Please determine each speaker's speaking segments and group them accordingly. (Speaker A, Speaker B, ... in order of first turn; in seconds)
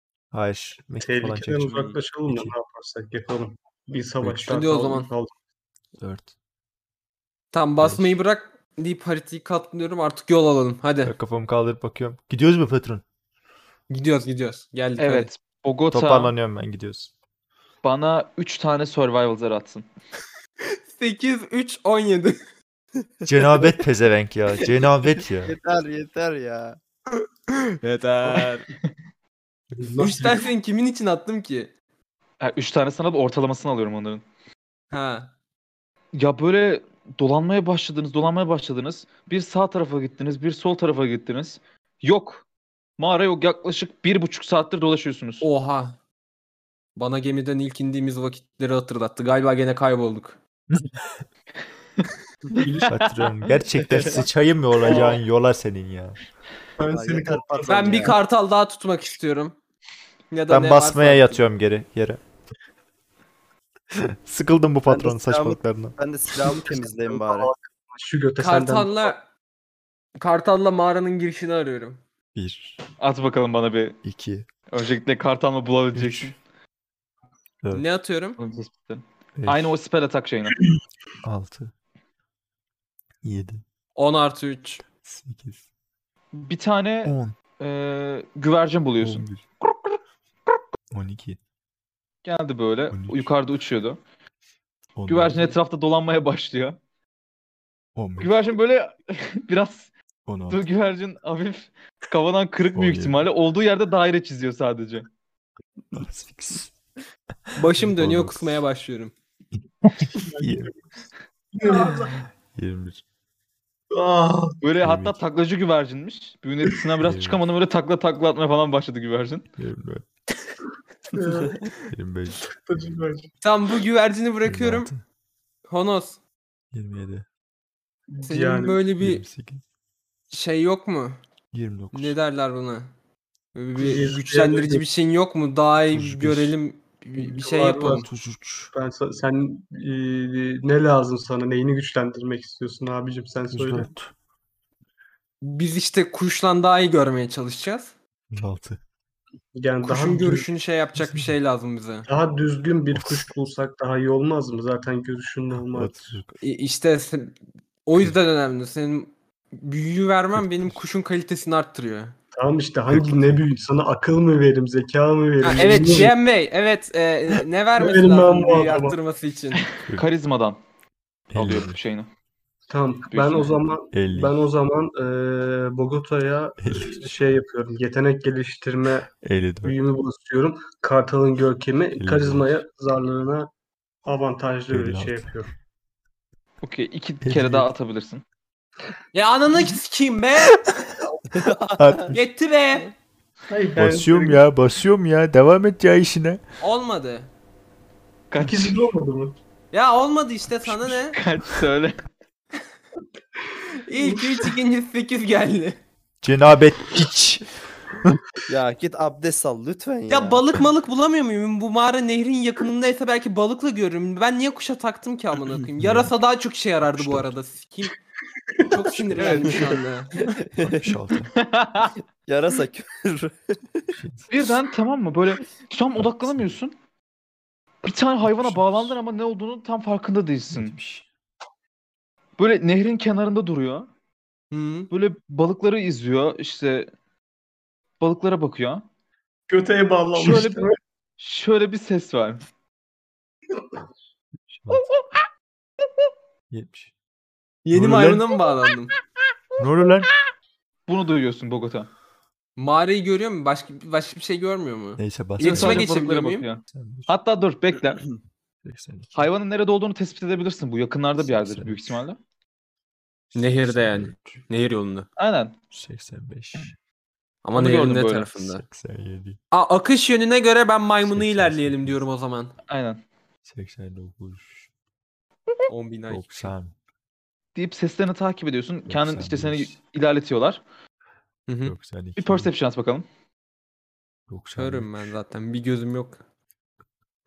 Speaker A: 0.3-2.5, 6.0-6.3, 7.8-8.2, 11.0-13.0, 15.9-17.1, 23.2-25.5, 52.9-56.2, 60.5-62.2, 63.9-65.9, 72.3-72.8, 74.0-74.5, 75.9-76.3, 79.4-79.7, 81.2-81.7, 83.2-83.6, 85.0-85.6, 87.0-87.3, 89.0-89.5, 90.9-91.4, 92.9-93.3, 94.9-95.5, 97.9-98.3, 100.2-100.6, 102.7-103.2, 105.9-106.7, 107.6-108.6, 109.9-110.7, 112.5-113.0, 114.8-115.1, 117.0-117.4, 119.6-120.0, 121.9-122.4, 124.4-125.0, 126.7-127.2, 129.0-129.6, 131.5-132.2, 135.9-136.5, 137.9-138.7, 143.5-144.1, 148.3-148.8, 151.0-151.3, 152.9-153.3, 155.7-156.3, 162.9-163.4, 171.3-171.8, 173.9-174.4, 176.6-177.3, 179.2-179.8, 182.0-182.6, 184.7-185.3, 187.2-187.7, 191.8-192.2, 193.8-196.4, 206.2-207.5, 215.8-216.1, 216.9-217.3, 220.6-221.3, 223.9-224.3, 226.0-226.5, 228.2-228.9, 230.5-231.1, 244.5-244.8, 246.5-246.9, 247.7-248.3, 249.6-250.1, 255.0-255.9, 256.7-257.1, 258.6-259.2, 261.2-261.8, 263.3-264.4, 265.7-266.7, 268.4-269.4, 271.0-272.0, 273.5-274.7, 276.1-276.7, 278.9-279.7, 281.6-282.5, 284.3-284.9
Speaker B: 1.0-5.3, 29.7-30.5, 52.5-53.0, 54.8-55.2, 56.8-58.1, 66.4-69.1, 110.1-110.7, 111.6-112.1, 113.9-114.5, 121.1-121.7, 122.6-123.3, 128.1-128.8, 133.8-134.8, 137.2-138.1, 138.7-143.9, 149.6-150.5, 152.1-156.2, 162.3-166.1, 167.8-169.0, 172.7-179.1, 179.6-183.5, 184.0-185.5, 193.5-194.4, 198.4-199.4, 204.0-204.3, 239.5-240.8
Speaker C: 4.4-5.1, 7.5-11.1, 13.9-15.3, 20.9-22.4, 27.5-28.7, 30.0-31.7, 34.9-35.3, 45.4-46.0, 47.0-50.4, 57.6-59.5, 60.3-61.4, 68.4-69.2, 70.2-72.0, 77.7-78.4, 83.9-84.8, 107.5-109.1, 123.4-124.9, 125.7-126.2, 128.2-129.2, 130.3-131.2, 131.9-132.9, 133.5-138.1, 145.4-147.9, 149.8-152.1, 156.4-162.1, 165.4-169.7, 189.1-190.6, 192.1-192.9, 196.6-197.3, 199.7-201.2, 203.8-205.8, 210.1-217.9, 218.6-220.1, 234.5-234.9, 247.6-248.9, 252.6-256.5, 263.3-265.1, 267.4-268.6, 269.5-272.5, 275.7-276.5, 281.5-281.7, 284.6-286.2
Speaker D: 15.0-16.3, 17.8-19.9, 32.4-34.2, 36.1-42.4, 43.0-45.5, 73.0-74.0, 74.7-76.3, 78.4-80.6, 86.3-89.2, 92.2-94.0, 95.1-96.8, 98.2-99.9, 100.5-105.1, 114.6-119.5, 169.8-170.6, 171.3-172.1, 173.1-173.6, 186.6-188.2, 198.3-198.8, 200.8-202.1, 219.2-219.6, 221.4-221.9, 224.3-226.7, 227.8-230.8, 232.4-233.9, 234.9-236.9, 238.0-238.8, 240.1-240.6, 241.2-242.4, 250.9-251.9, 255.4-258.0, 259.1-262.2, 265.2-265.5, 267.5-268.3, 272.7-273.0, 277.5-280.6, 282.2-283.0
Speaker E: 25.4-26.8, 56.8-58.2, 64.9-67.5, 191.3-192.2, 208.5-210.5, 219.5-219.7, 220.3-220.8, 222.3-223.9